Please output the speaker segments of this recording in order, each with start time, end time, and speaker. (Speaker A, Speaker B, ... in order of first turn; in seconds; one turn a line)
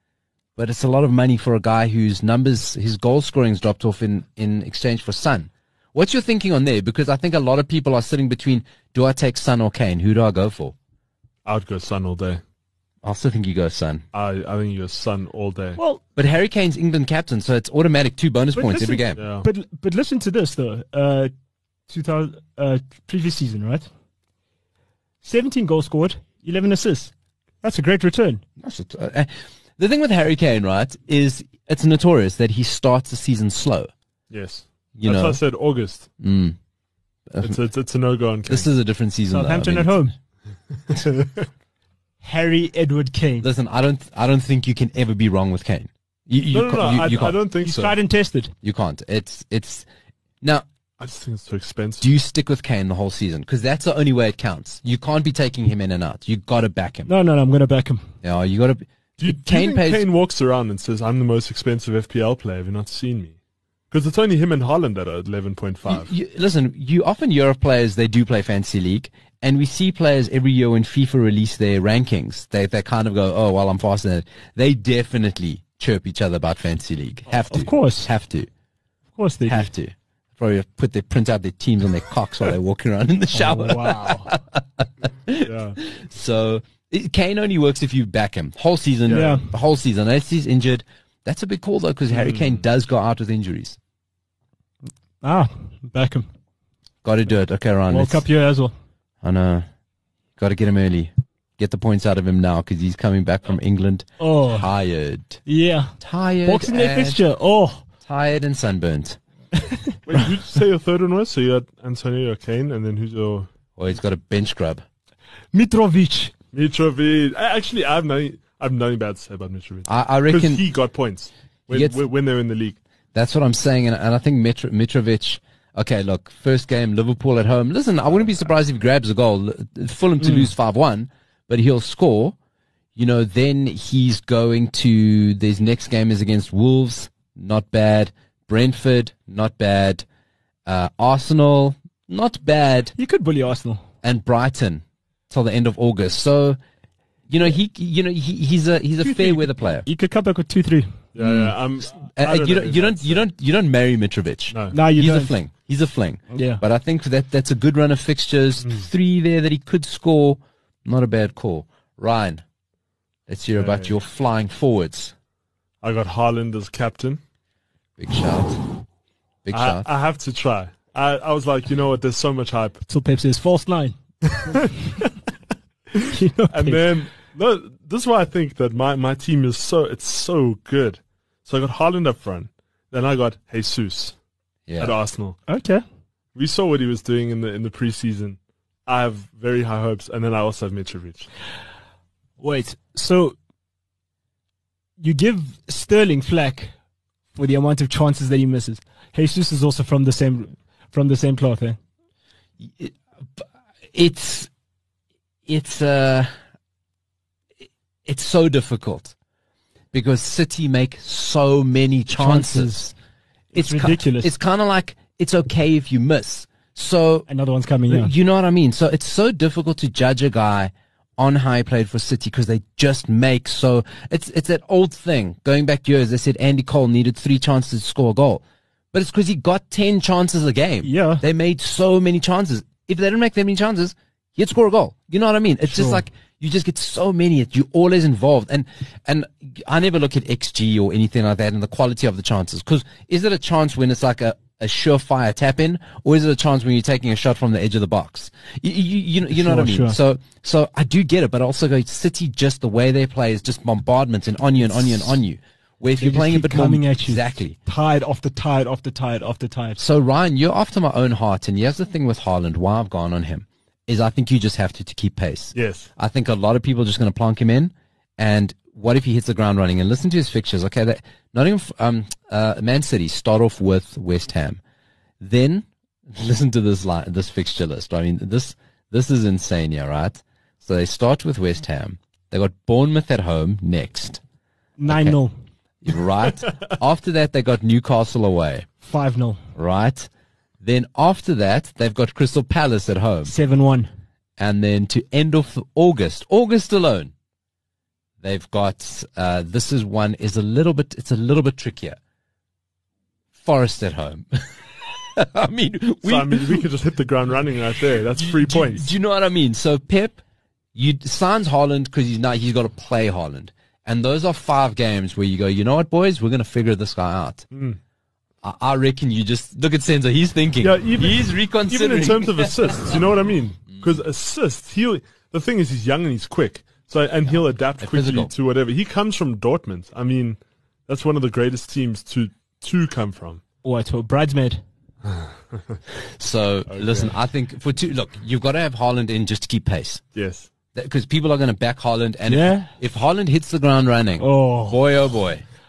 Speaker A: 0.6-10.7
Speaker B: 11.4-12.4
Speaker A: 13.0-14.0
Speaker B: 14.1-15.8
Speaker A: 16.1-19.2
Speaker C: 18.6-21.3
Speaker B: 19.2-19.4
Speaker C: 21.9-23.9
Speaker C: 25.2-28.4
Speaker A: 28.6-33.9
Speaker B: 34.3-36.1
Speaker A: 35.0-35.4
Speaker A: 36.2-36.6
Speaker A: 37.3-37.6
Speaker B: 37.4-38.7
Speaker A: 38.5-40.0
Speaker C: 39.3-40.1
Speaker B: 40.9-41.5
Speaker C: 42.2-43.5
Speaker A: 43.4-47.4
Speaker B: 46.5-47.9
Speaker C: 47.6-48.5
Speaker A: 48.6-49.9
Speaker B: 51.0-52.1
Speaker A: 52.0-57.1
Speaker C: 57.0-58.0
Speaker A: 58.2-60.0
Speaker B: 59.2-63.3
Speaker B: 63.9-66.1
Speaker A: 65.8-78.5
Speaker C: 77.5-78.1
Speaker C: 79.2-79.7
Speaker A: 79.5-93.8
Speaker C: 83.3-84.3
Speaker B: 85.4-85.8
Speaker B: 89.0-89.4
Speaker C: 89.1-89.5
Speaker B: 92.1-92.6
Speaker C: 95.2-96.2
Speaker A: 97.0-98.2
Speaker C: 97.9-98.7
Speaker A: 99.2-99.7
Speaker A: 100.4-105.4
Speaker C: 104.2-104.7
Speaker C: 105.5-107.8
Speaker A: 106.0-107.2
Speaker A: 108.0-109.2
Speaker C: 109.6-110.0
Speaker B: 110.1-113.5
Speaker A: 113.8-114.8
Speaker C: 115.5-116.3
Speaker B: 116.5-122.8
Speaker A: 119.9-120.6
Speaker A: 121.7-122.0
Speaker A: 123.1-132.3
Speaker C: 130.2-130.5
Speaker A: 132.9-140.0
Speaker A: 140.7-142.9
Speaker C: 142.9-143.8
Speaker A: 144.0-146.6
Speaker A: 147.3-149.8
Speaker C: 149.0-150.9
Speaker B: 151.1-153.2
Speaker A: 151.2-151.5
Speaker A: 152.0-162.4
Speaker B: 154.5-154.8
Speaker C: 154.7-155.3
Speaker C: 156.3-156.6
Speaker B: 158.6-158.9
Speaker A: 163.3-165.1
Speaker B: 163.5-163.9
Speaker B: 165.8-167.2
Speaker A: 168.0-168.6
Speaker A: 169.4-169.9
Speaker B: 169.5-172.8
Speaker C: 172.8-173.9
Speaker B: 174.3-174.6
Speaker C: 174.5-175.0
Speaker B: 175.9-184.1
Speaker C: 176.1-177.0
Speaker A: 184.7-185.0
Speaker B: 184.8-185.4
Speaker C: 185.5-185.8
Speaker B: 186.3-191.3
Speaker C: 192.4-193.3
Speaker C: 195.0-196.7
Speaker C: 197.3-201.8
Speaker A: 202.6-203.4
Speaker A: 203.9-204.5
Speaker A: 205.5-206.3
Speaker A: 208.1-209.1
Speaker A: 209.9-212.9
Speaker C: 212.1-212.9
Speaker C: 213.5-214.3
Speaker A: 213.5-217.3
Speaker C: 217.3-218.1
Speaker A: 217.9-257.6
Speaker C: 230.8-231.2
Speaker C: 235.7-236.0
Speaker C: 249.3-250.0
Speaker C: 256.0-259.8
Speaker A: 259.8-274.6
Speaker B: 265.5-265.9
Speaker A: 275.2-284.2
Speaker C: 284.8-285.3
Speaker A: 284.9-285.2
Speaker A: 285.8-288.7
Speaker C: 288.8-289.4
Speaker A: 289.6-290.1
Speaker A: 290.6-293.3
Speaker C: 293.2-293.9
Speaker A: 294.4-297.1
Speaker A: 298.2-302.0
Speaker A: 303.4-306.6
Speaker B: 306.0-308.9
Speaker A: 308.1-310.2
Speaker A: 310.7-317.4
Speaker B: 317.5-317.8
Speaker A: 318.4-323.0
Speaker B: 320.6-333.4
Speaker A: 327.8-328.3
Speaker C: 333.6-334.6
Speaker B: 335.0-335.8
Speaker A: 336.2-340.0
Speaker B: 336.7-337.1
Speaker B: 340.1-340.5
Speaker A: 340.7-345.4
Speaker C: 342.3-342.7
Speaker C: 344.2-344.8